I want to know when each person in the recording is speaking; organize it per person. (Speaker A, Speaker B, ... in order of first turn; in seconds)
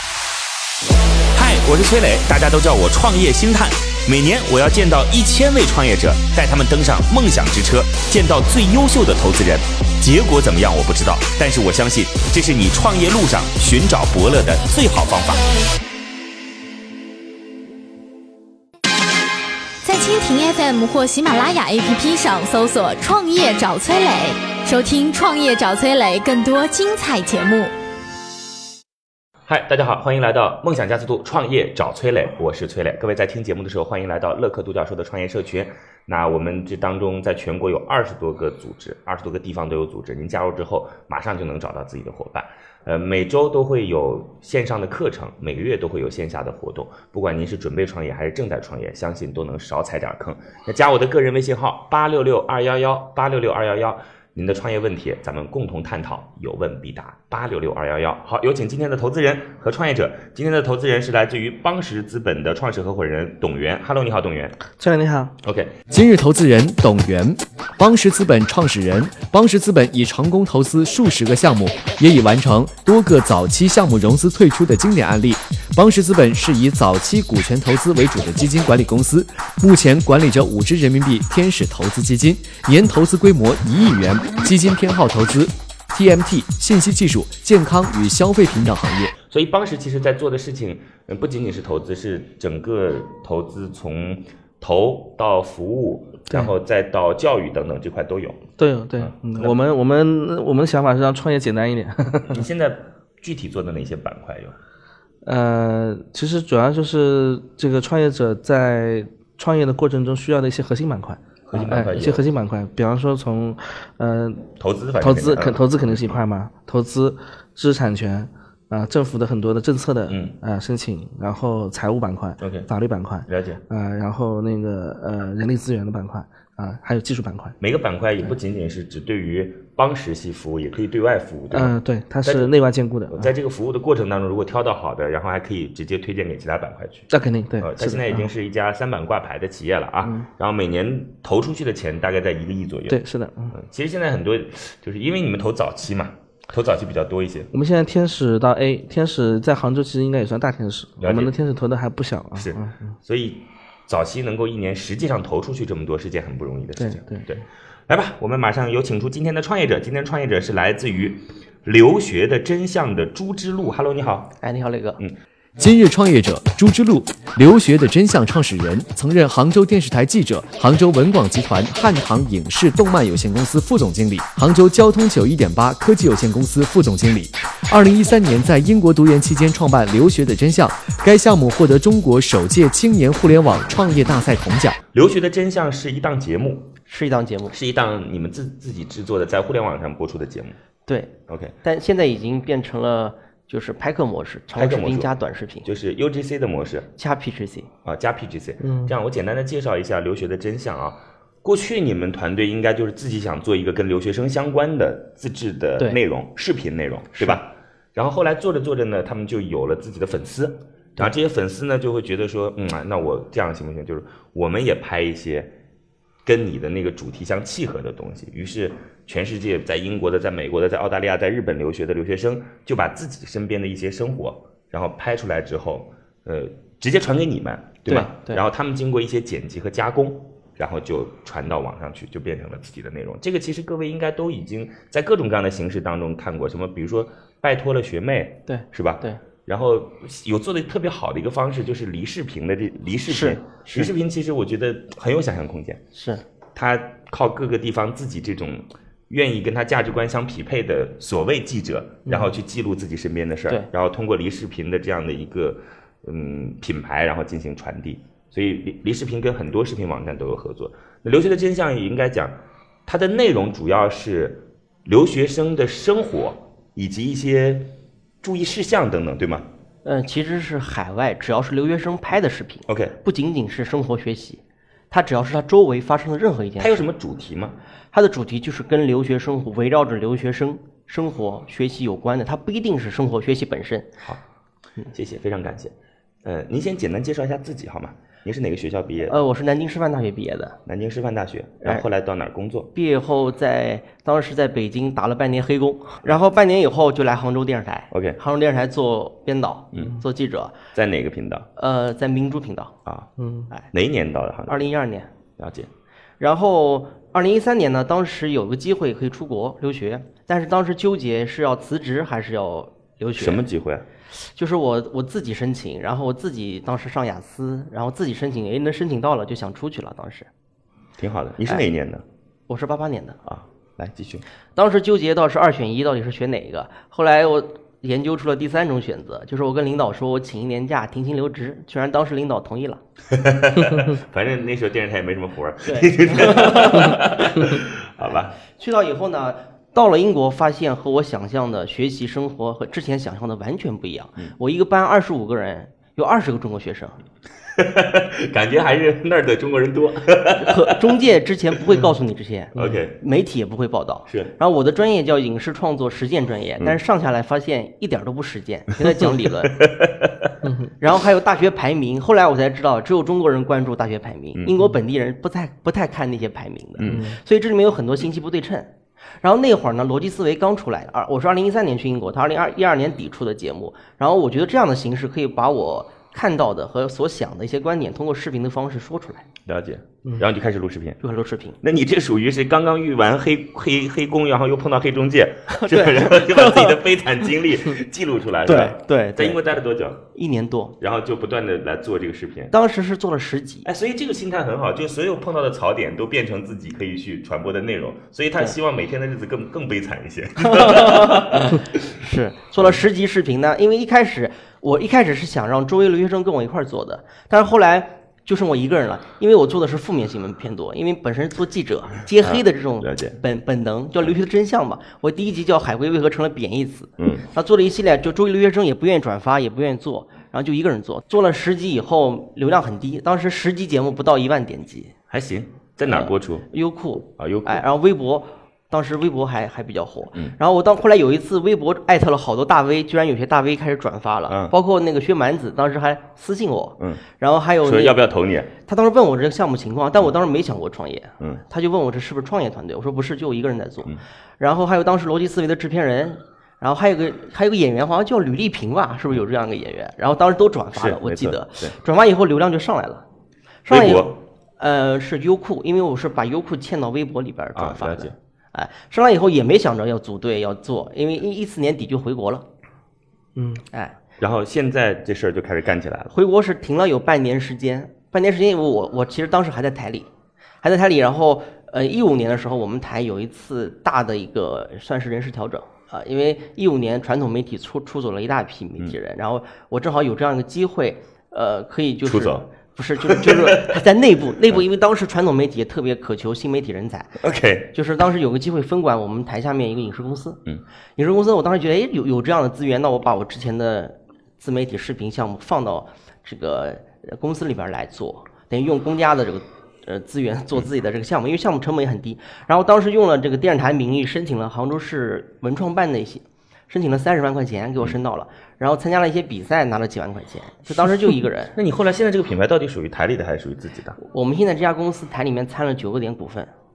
Speaker A: 1.3-15.4, 29.5-64.6, 65.4-65.8, 89.3-98.4, 99.0-99.5, 102.3-104.5, 111.5-112.2, 114.6-116.2, 120.1-120.4, 122.4-122.7, 123.3-123.6, 127.6-132.5, 133.1-143.0, 143.5-147.5, 151.0-151.3, 152.3-164.3, 184.9-186.7, 187.5-190.6, 191.3-191.5, 194.5-195.1, 195.6-196.9, 197.8-215.5, 216.2-245.8, 246.5-262.3, 262.9-269.5, 272.7-272.9, 276.6-277.6, 284.9-289.2, 290.6-292.7, 297.9-298.2, 299.7-300.0, 300.7-301.5, 302.8-303.1, 303.7-304.7, 305.4-305.7, 313.2-313.9, 321.0-322.0, 323.2-324.2, 333.1-338.4, 347.6-351.0, 352.5-353.0, 354.1-354.3, 358.8-360.3, 364.3-364.6, 366.8-367.0, 379.4-381.0, 381.6-390.1, 390.8-392.5, 393.6-401.6, 412.2-413.2, 417.0-417.2, 425.1-426.5, 427.2-427.6, 434.3-434.6, 437.6-438.5, 450.7-451.7, 453.7-454.2, 457.5-458.1, 464.2-466.1, 482.0-482.5, 483.0-483.8, 487.2-487.7, 511.5-514.0
Speaker B: 19.8-27.7
Speaker C: 64.8-65.3, 98.6-102.4, 105.2-114.5, 115.0-127.5, 131.5-133.3, 137.1-138.3, 142.9-143.6, 147.5-152.9, 156.8-157.3, 198.6-198.9, 303.2-303.5, 360.4-360.7, 366.8-367.2, 463.4-463.6
Speaker D: 65.9-89.2, 165.6-184.8
Speaker E: 164.4-165.0, 186.9-187.5, 190.8-195.7, 197.0-197.7, 207.1-207.4, 227.9-228.4, 238.5-239.2, 243.1-243.9, 245.9-246.2, 269.8-276.9, 277.9-283.9, 289.1-290.6, 292.7-300.5, 301.6-302.8, 304.5-305.1, 306.2-313.4, 314.2-320.3, 322.5-323.2, 324.5-332.8, 335.6-337.4, 338.0-347.0, 350.3-359.7, 360.8-379.2, 381.0-381.6, 385.5-386.8, 388.4-389.6, 390.1-390.8, 392.5-393.7, 400.4-424.9, 425.8-438.1, 438.6-453.0, 453.6-462.4, 463.7-464.0, 466.1-470.1, 470.6-487.2, 487.7-490.4, 491.0-511.6, 514.0-516.5